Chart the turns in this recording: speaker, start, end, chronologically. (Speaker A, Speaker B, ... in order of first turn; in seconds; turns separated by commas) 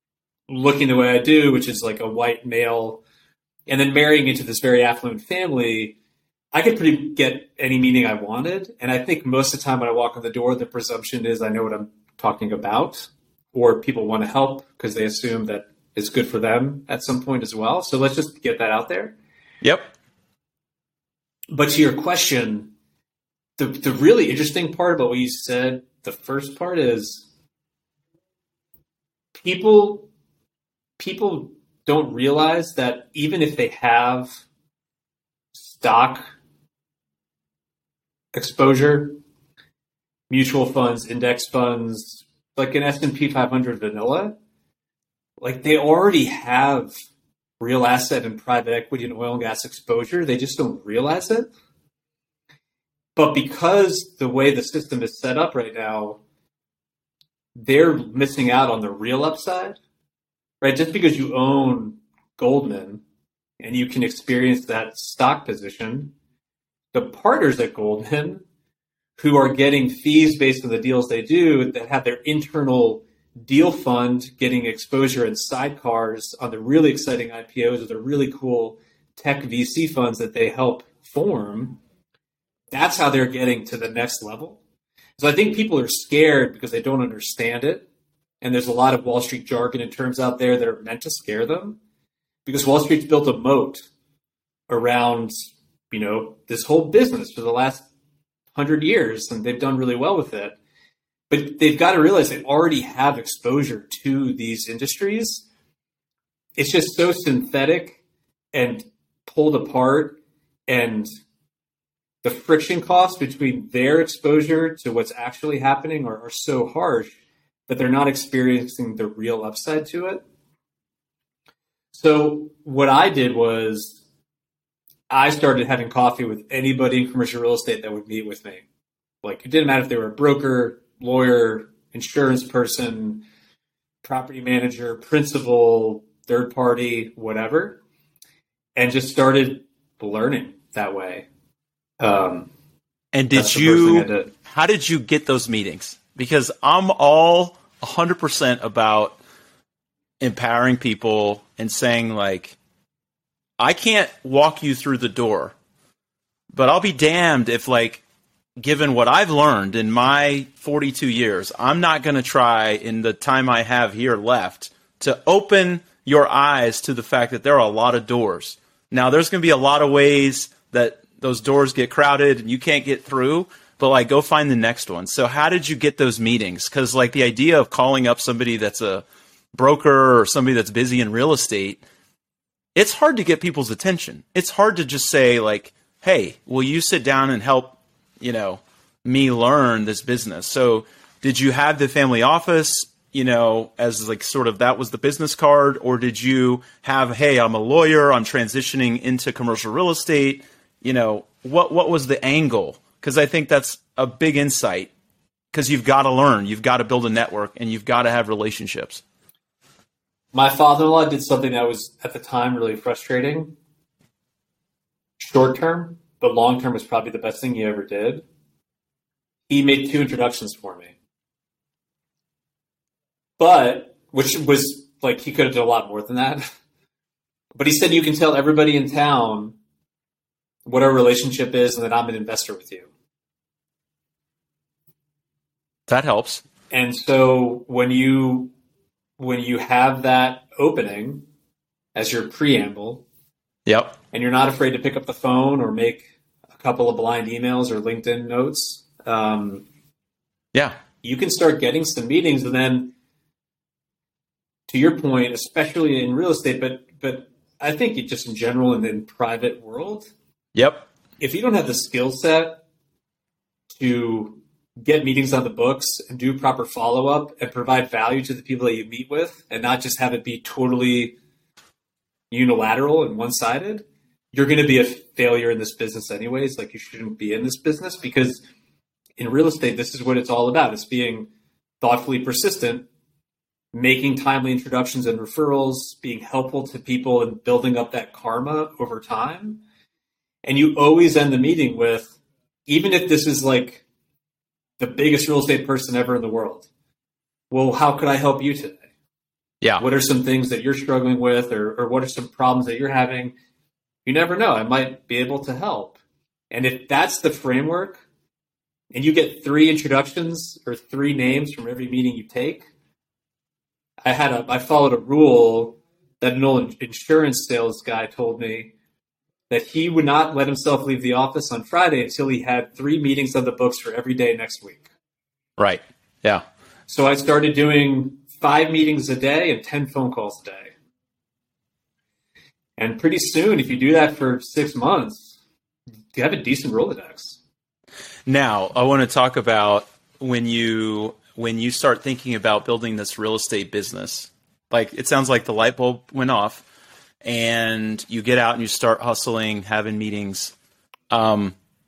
Speaker A: 0.5-3.0, Speaker A: 3.7-6.0, Speaker A: 6.5-19.1, Speaker B: 19.6-19.9, Speaker A: 21.5-22.7, Speaker A: 23.6-27.2, Speaker A: 29.4-30.1, Speaker A: 31.0-34.4, Speaker A: 35.5-36.3, Speaker A: 38.3-39.2, Speaker A: 40.3-44.4, Speaker A: 45.4-46.9, Speaker A: 47.6-51.5, Speaker A: 53.1-56.2, Speaker A: 57.5-59.8, Speaker A: 60.6-63.0, Speaker A: 63.6-66.1, Speaker A: 66.9-68.4, Speaker A: 69.2-81.8, Speaker A: 82.7-84.6, Speaker A: 85.2-87.8, Speaker A: 88.4-91.8, Speaker A: 92.4-93.8, Speaker A: 94.7-97.9, Speaker A: 98.5-100.6, Speaker A: 101.3-105.5, Speaker A: 106.6-108.0, Speaker A: 108.5-111.1, Speaker A: 112.2-117.2, Speaker A: 117.7-120.2, Speaker A: 121.9-124.0, Speaker A: 125.1-128.6, Speaker A: 129.2-133.2, Speaker A: 134.0-137.8, Speaker A: 138.8-141.3, Speaker A: 142.0-142.5, Speaker B: 143.1-149.2, Speaker A: 143.3-144.3, Speaker B: 150.2-152.6, Speaker B: 153.6-155.5, Speaker B: 156.5-158.0, Speaker B: 158.6-181.8, Speaker B: 182.8-204.9, Speaker B: 205.5-209.0, Speaker A: 210.3-213.5, Speaker A: 215.2-218.2, Speaker A: 219.5-220.9, Speaker A: 223.4-226.4, Speaker A: 227.6-229.6, Speaker A: 230.6-232.9, Speaker B: 235.9-236.4, Speaker A: 236.7-238.5, Speaker A: 239.2-241.2, Speaker A: 241.9-243.0, Speaker B: 243.7-244.0, Speaker A: 244.1-249.6, Speaker A: 251.0-252.9, Speaker A: 254.7-260.1, Speaker B: 260.5-260.9, Speaker A: 261.2-262.6, Speaker A: 263.7-271.1, Speaker A: 272.3-278.4, Speaker A: 279.2-281.3, Speaker A: 281.8-282.9, Speaker A: 283.7-289.6, Speaker A: 290.4-292.1, Speaker A: 292.7-293.8, Speaker A: 294.8-296.7, Speaker A: 297.5-298.8, Speaker A: 299.8-303.3, Speaker A: 304.0-306.0, Speaker A: 306.5-308.0, Speaker A: 308.9-312.7, Speaker A: 314.0-318.7, Speaker A: 319.5-324.8, Speaker B: 325.6-326.4, Speaker A: 326.9-330.7, Speaker A: 332.8-335.4, Speaker A: 336.1-337.4, Speaker B: 338.3-346.6, Speaker B: 347.2-350.5, Speaker B: 351.1-351.5